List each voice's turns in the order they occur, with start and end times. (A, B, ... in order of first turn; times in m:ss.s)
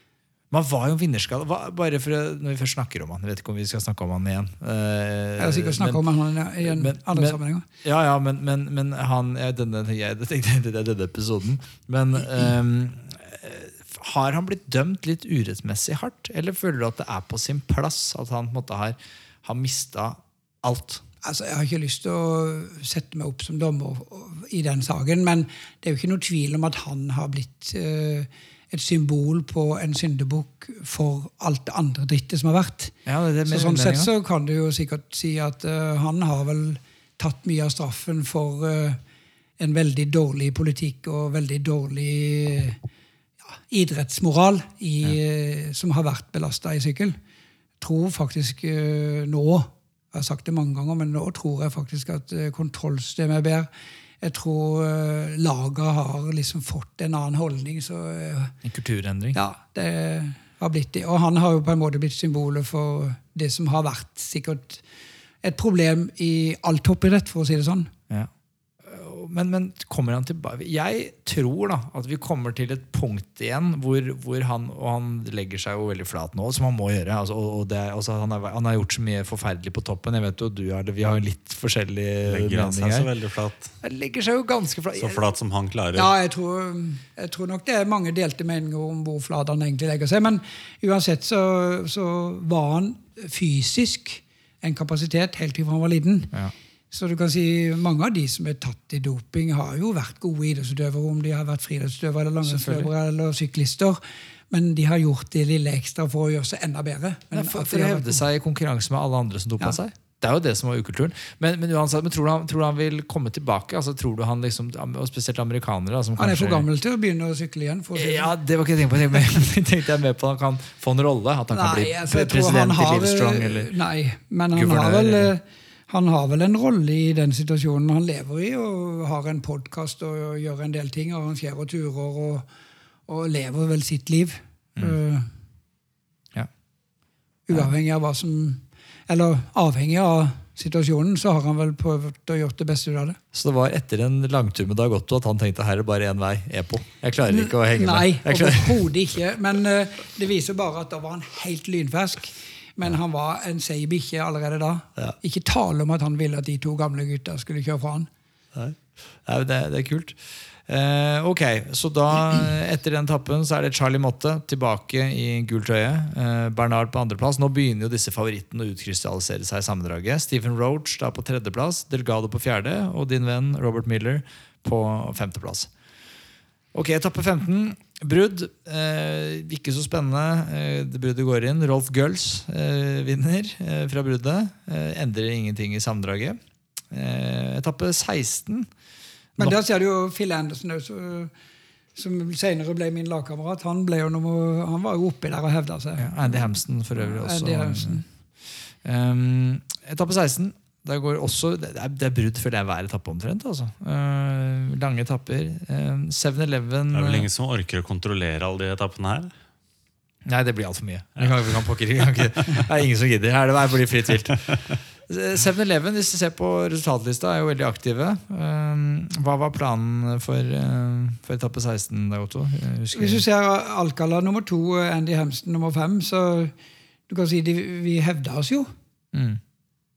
0:00.5-0:06.0 A
0:05.4-0:07.7 B
0:06.6-0:21.0 A
0:21.2-0:39.0 B
0:33.1-0:34.1 A
0:39.6-0:42.8 B
0:43.5-0:47.2 B
0:47.8-0:53.7 B
0:54.2-0:58.6 B
0:58.6-0:59.4 A
0:59.3-1:04.8 B
1:05.4-1:07.9 B
1:08.8-1:23.1 A
1:22.2-1:23.8 C
1:23.8-1:25.2 A
1:25.0-1:26.1 C
1:25.9-1:36.3 B
1:36.9-1:44.0 B
1:42.4-1:42.9 A
1:44.5-1:48.2 B
1:47.3-1:56.7 A
1:56.2-1:58.4 B
1:58.0-2:03.7 A
2:01.5-2:12.5 B
2:04.5-2:05.3 A
2:13.1-2:15.3 B
2:17.5-2:23.2 B
2:23.3-2:28.9 A
2:27.3-2:38.1 B
2:38.6-2:55.7 A
2:56.7-3:06.4 A
3:06.9-3:08.7 A
3:09.4-3:11.3 B
3:12.0-3:18.1 B
3:16.0-3:27.3 A
3:26.9-3:29.3 C
3:30.2-3:43.2 A
3:42.9-3:46.5 B
3:47.1-3:48.7 B
3:49.1-3:49.4 A